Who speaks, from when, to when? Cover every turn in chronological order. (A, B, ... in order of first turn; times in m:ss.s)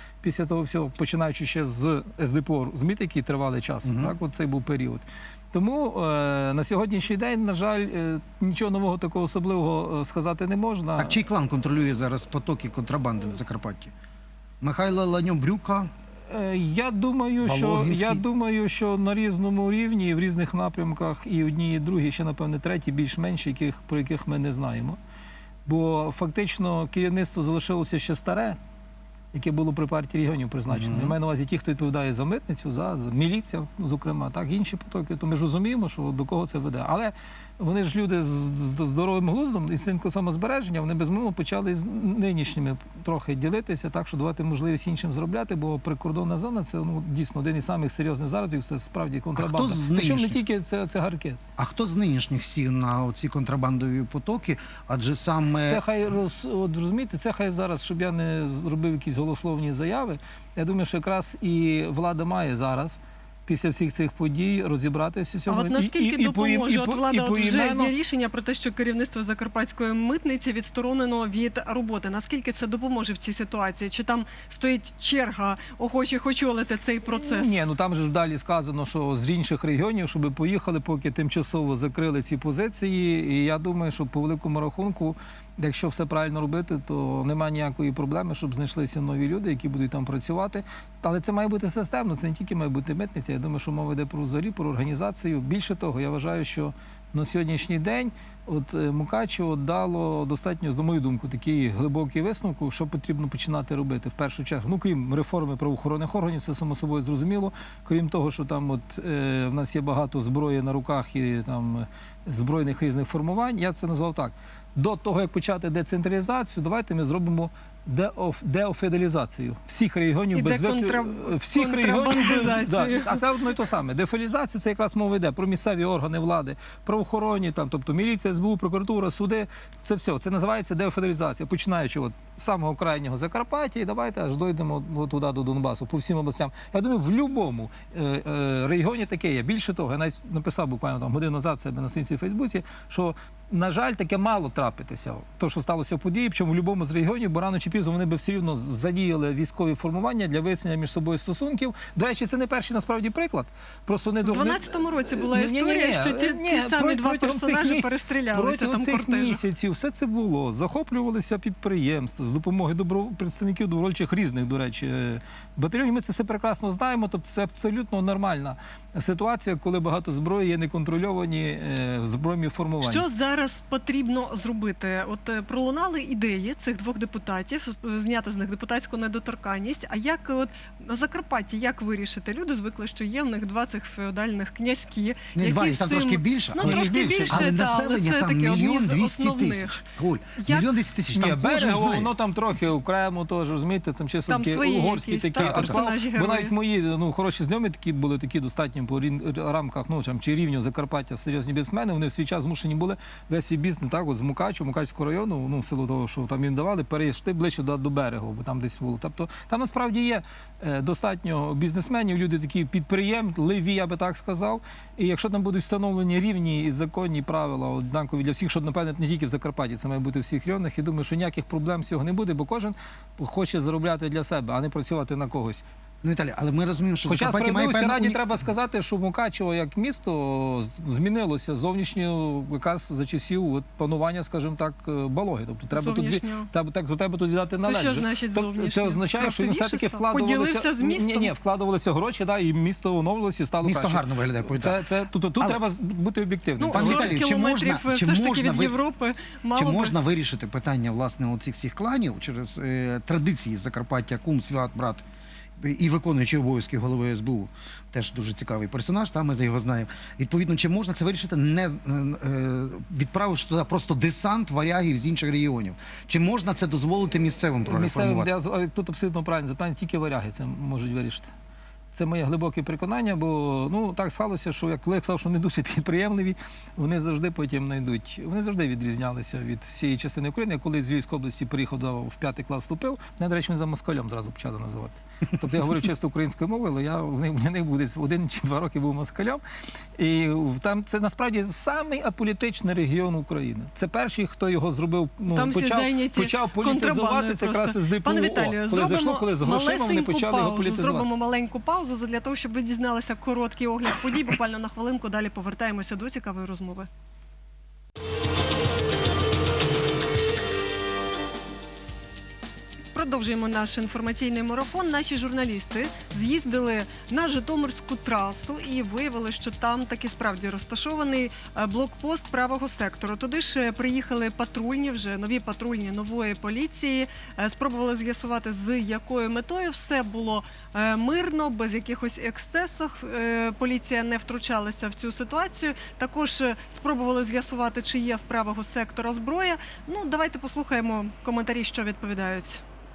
0:00.2-0:11.2 A
0:03.8-0:04.1 B
0:11.0-0:13.9 B
0:14.6-0:15.9 B
0:16.3-0:25.0 A
0:17.4-0:18.2 B
0:25.6-0:28.6 A
0:29.3-0:51.4 A
0:30.7-0:31.1 B
0:49.4-0:50.4 B
0:51.6-0:55.8 B
0:55.7-1:07.9 A
1:05.5-1:17.5 C
1:17.2-2:53.0 A
2:00.3-2:03.3 C
2:34.2-2:39.4 C
2:52.8-3:09.8 C
3:05.3-3:12.1 B
3:06.6-3:07.7 A
3:10.4-3:10.7 C
3:11.1-3:45.6 A
3:14.3-3:16.5 C
3:15.4-3:15.8 B
3:46.0-3:48.4 B
3:47.1-4:07.2 A
3:55.7-3:56.5 C
3:57.6-4:01.3 C
4:03.6-4:04.8 B
4:06.6-4:09.9 C
4:06.7-4:08.8 B
4:09.5-4:15.0 B
4:15.6-4:28.3 B
4:27.7-4:31.3 A
4:31.9-4:49.4 A
4:50.0-5:01.1 A
4:55.3-5:06.9 C
5:12.9-5:42.6 C